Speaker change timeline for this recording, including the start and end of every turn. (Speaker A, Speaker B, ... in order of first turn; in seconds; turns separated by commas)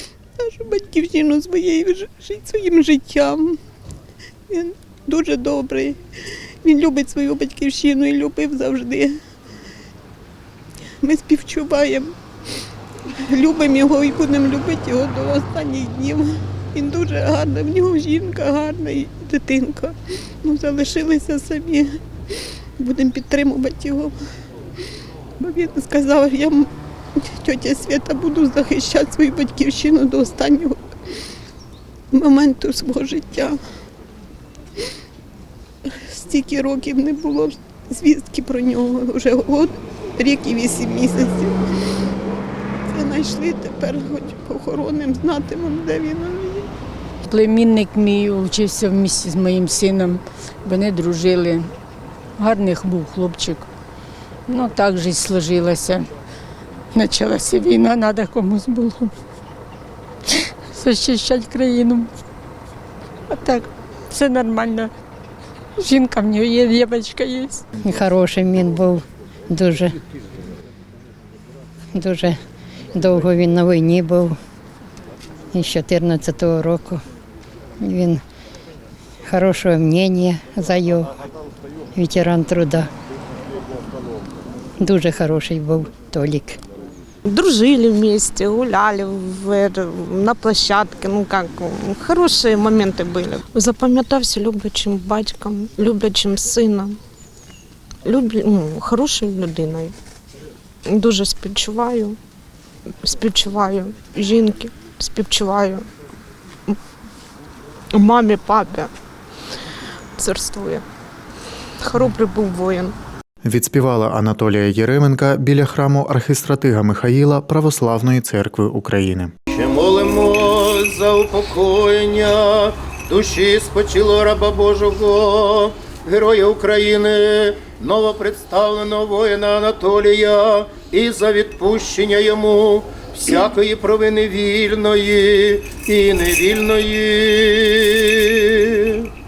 Speaker A: 0.4-3.6, Speaker A: 4.5-6.0, Speaker A: 6.6-9.2, Speaker A: 11.0-12.1, Speaker A: 13.2-22.0, Speaker A: 22.8-24.1, Speaker A: 25.4-26.7, Speaker A: 27.4-30.8, Speaker A: 32.1-33.6, Speaker A: 35.9-41.6, Speaker A: 42.9-46.7, Speaker B: 47.3-51.7, Speaker B: 52.4-53.7, Speaker B: 54.5-56.1, Speaker B: 56.9-59.1, Speaker B: 60.7-62.1, Speaker B: 63.3-64.9, Speaker B: 65.8-67.6, Speaker C: 67.8-70.0, Speaker C: 71.9-72.3, Speaker C: 72.9-74.4, Speaker C: 75.5-77.0, Speaker C: 77.8-78.2, Speaker C: 79.3-81.1, Speaker C: 81.9-82.9, Speaker C: 84.8-86.6, Speaker D: 87.3-97.0, Speaker D: 98.0-99.9, Speaker D: 100.9-102.2, Speaker D: 103.0-105.8, Speaker D: 107.9-108.9, Speaker D: 110.2-110.8, Speaker D: 111.8-112.9, Speaker E: 113.4-119.3, Speaker F: 119.5-139.1